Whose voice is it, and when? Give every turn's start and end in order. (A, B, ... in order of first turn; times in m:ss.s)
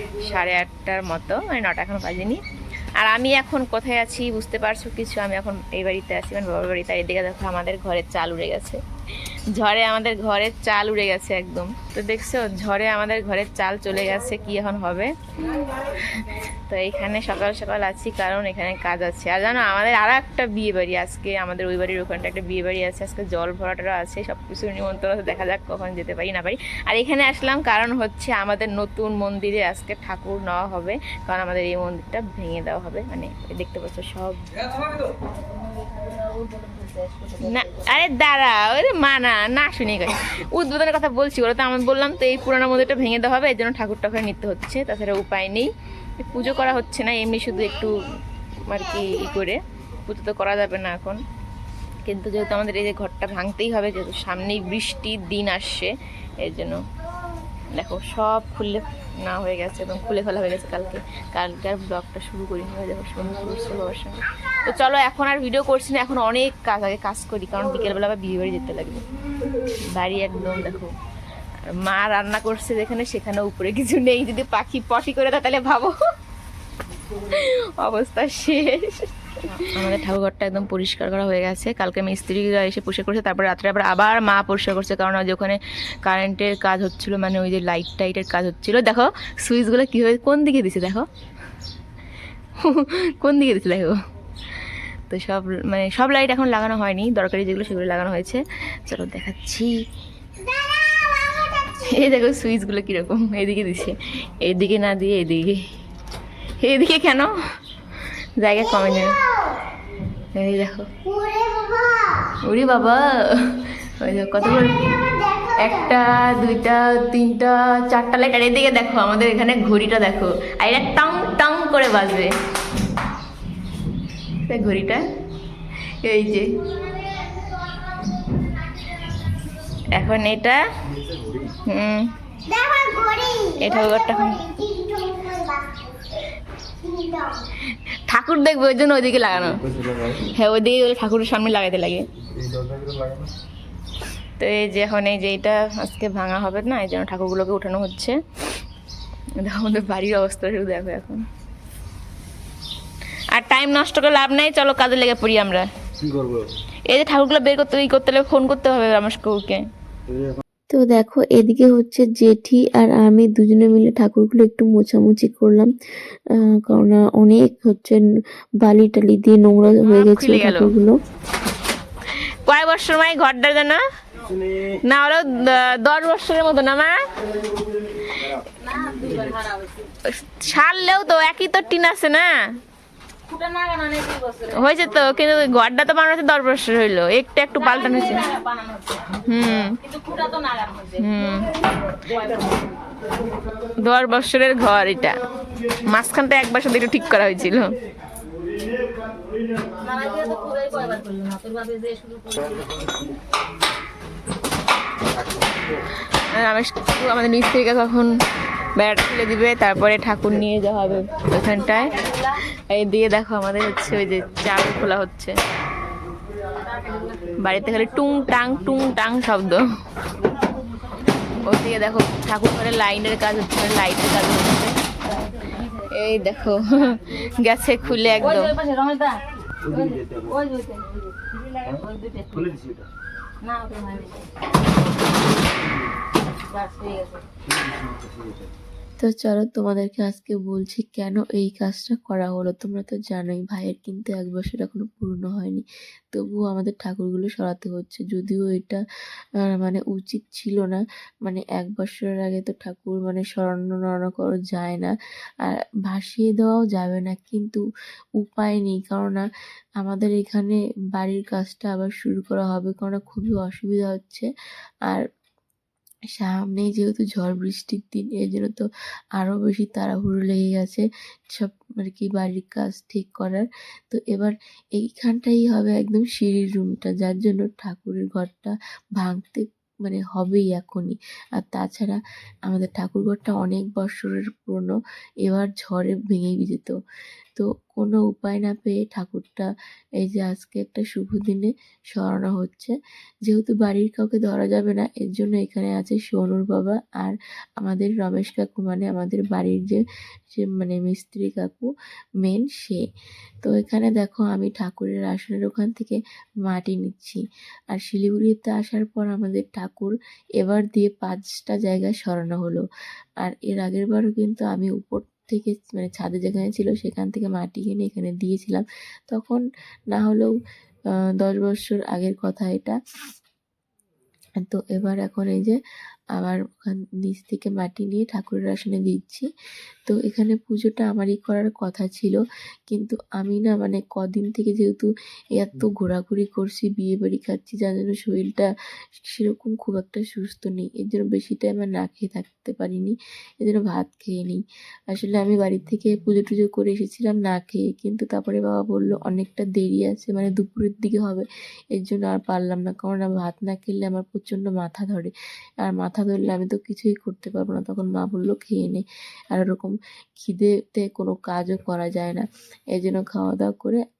0:00.2-0:02.4 A
0:03.0-0:08.8 A
0:09.5-0:35.0 A
0:35.7-0:37.7 B
0:37.4-0:48.0 A
0:48.6-0:51.2 A
0:52.0-0:56.8 A
0:57.7-1:09.0 A
1:09.9-1:10.9 A
1:11.6-1:15.9 A
1:17.2-1:31.1 A
1:32.6-1:34.0 A
1:35.1-1:39.8 A
1:41.5-1:45.6 A
1:46.6-1:47.3 A
1:48.4-1:49.2 A
1:50.3-1:50.9 A
1:52.2-2:02.3 A
2:04.4-2:05.0 A
2:06.0-2:06.7 A
2:09.9-2:10.6 A
2:11.4-2:12.1 A
2:13.2-2:15.0 A
2:18.1-2:22.0 A
2:24.4-2:28.2 A
2:29.4-2:31.2 A
2:33.3-2:35.7 A
2:36.9-2:39.6 A
2:40.7-2:45.7 C
2:46.3-2:48.0 C
2:48.6-2:51.0 C
2:49.8-2:50.7 A
2:52.1-2:53.8 A
2:54.7-2:57.0 A
2:58.0-2:58.4 A
2:58.6-2:59.9 B
3:00.0-3:02.3 A
3:03.3-3:04.6 B
3:04.5-3:08.3 A
3:08.0-3:09.1 B
3:09.2-3:09.8 A
3:09.8-3:11.0 B
3:10.9-3:11.5 A
3:11.9-3:12.8 B
3:13.8-3:15.2 A
3:15.8-3:17.7 A
3:19.7-3:22.9 B
3:26.2-3:28.2 A
3:28.8-3:35.4 A
3:36.7-3:37.2 B
3:37.4-3:39.6 A
3:41.4-3:48.6 A
3:48.3-3:52.8 B
3:53.4-3:54.3 B
3:56.4-3:57.3 B
3:59.0-4:08.8 C
4:09.4-4:17.6 C
4:18.2-4:19.2 C
4:19.8-4:24.3 C
4:26.2-4:28.6 C
4:29.2-4:46.8 C
4:47.3-4:49.5 C
4:50.0-4:52.7 C
4:53.2-5:01.7 C
5:02.2-5:02.8 C
5:03.4-5:12.6 C
5:13.2-5:20.3 C
5:21.2-5:22.8 C
5:24.4-5:25.6 C
5:26.1-5:29.2 C
5:29.8-5:55.1 C
5:55.6-6:03.8 C